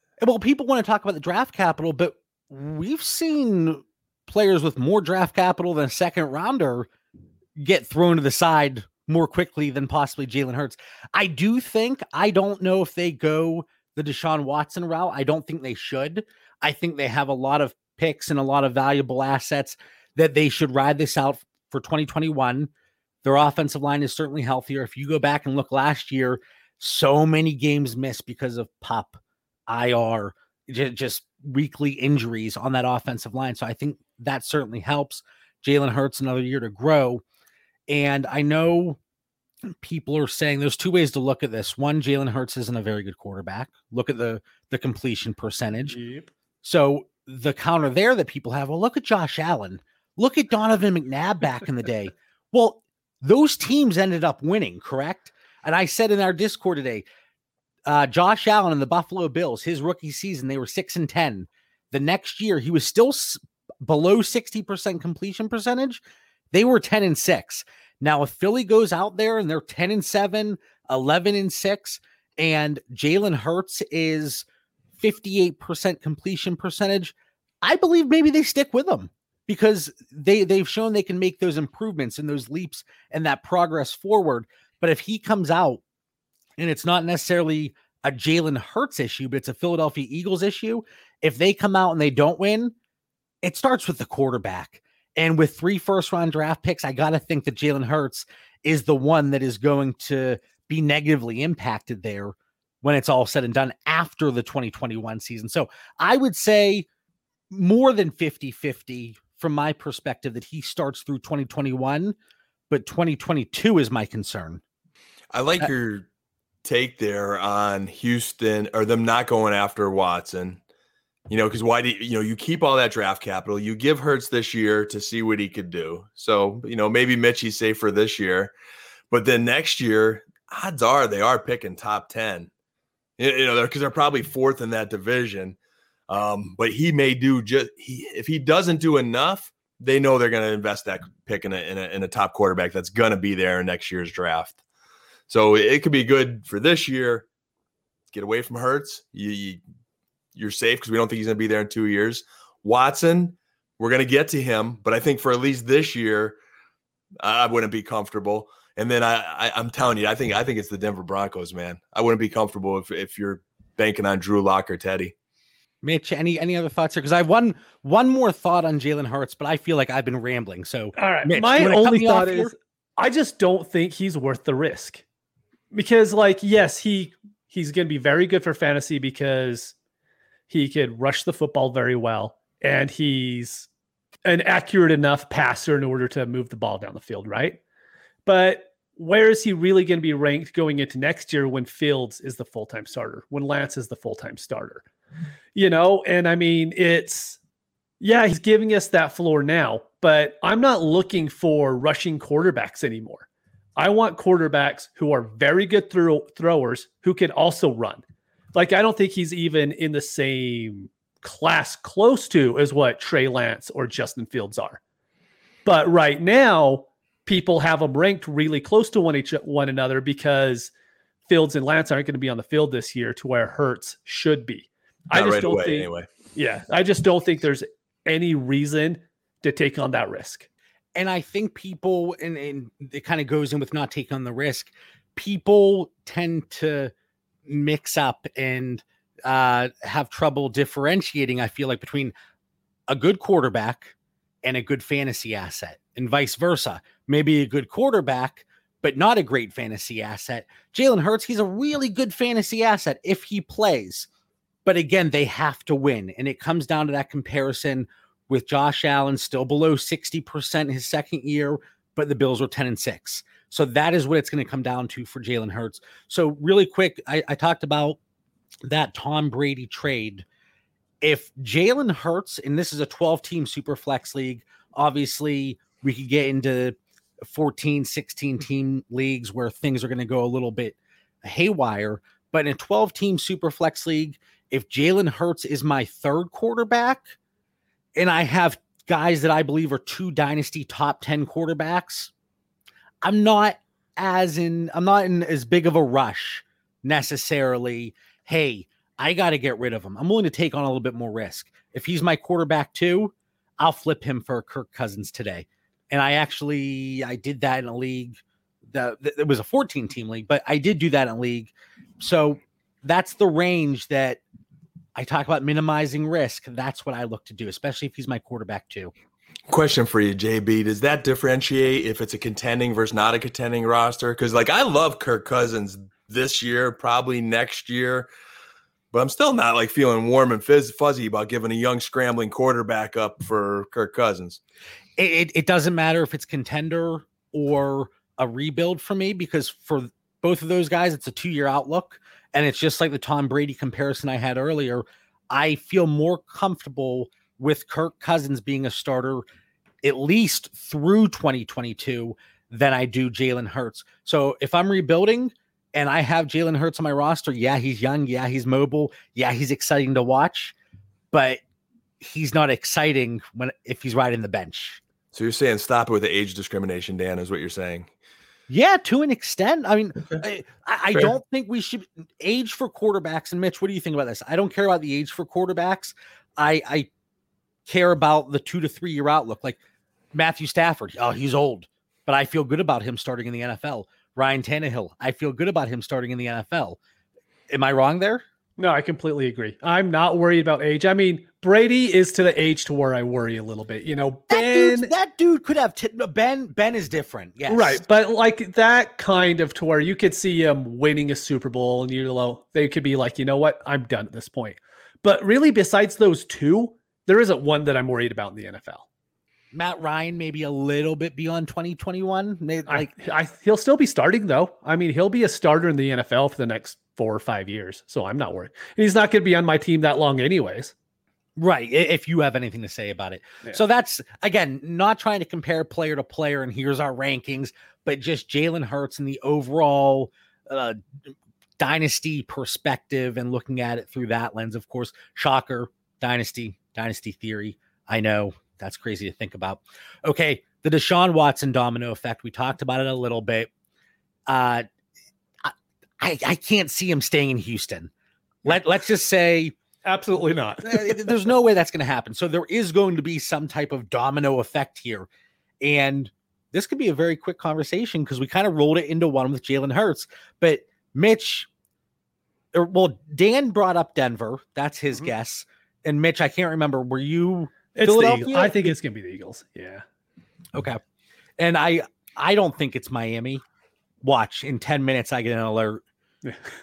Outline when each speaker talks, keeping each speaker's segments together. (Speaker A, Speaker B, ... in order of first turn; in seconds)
Speaker A: 0.2-6.9, 7.6-22.7, 23.2-37.2, 37.9-39.0, 39.6-46.0, 46.6-57.0, 57.9-74.5, 75.0-85.8, 86.6-92.7, 93.4-106.9, 107.5-112.1, 112.7-114.6, 165.8-172.5, 231.0-236.9, 237.5-242.1, 242.9-254.1, 254.6-268.0, 268.6-270.2, 271.0-287.1, 287.9-292.1, 293.0-314.2, 314.9-318.9, 335.0-349.2, 349.8-360.5, 361.1-361.4, 362.0-364.8, 368.5-376.9, 377.6-379.6, 380.1-386.8, 387.5-388.2, 394.3-397.8, 409.5-412.9, 421.4-430.8, 431.6-443.5, 444.3-444.7, 445.4-447.9, 448.4-449.5, 450.6-455.1, 455.6-461.5, 462.5-468.7, 470.5-470.8, 471.4-473.4, 474.0-475.8
Speaker B: 45.9-46.3, 171.0-175.0, 175.7-179.8, 180.5-183.7, 184.2-187.6, 188.2-194.9, 195.5-197.4, 198.0-203.2, 203.8-208.0, 208.5-214.8, 215.6-220.7, 221.3-230.5, 388.6-394.9, 397.5-408.8, 412.7-420.7, 449.8-451.0, 467.8-469.8
Speaker C: 115.3-116.1, 116.6-120.6, 121.3-128.5, 129.1-132.5, 133.2-135.6, 136.1-144.6, 145.3-147.2, 148.1-149.6, 150.3-156.4, 157.2-165.1, 225.1-226.1, 319.5-328.1, 328.9-334.4, 365.1-367.9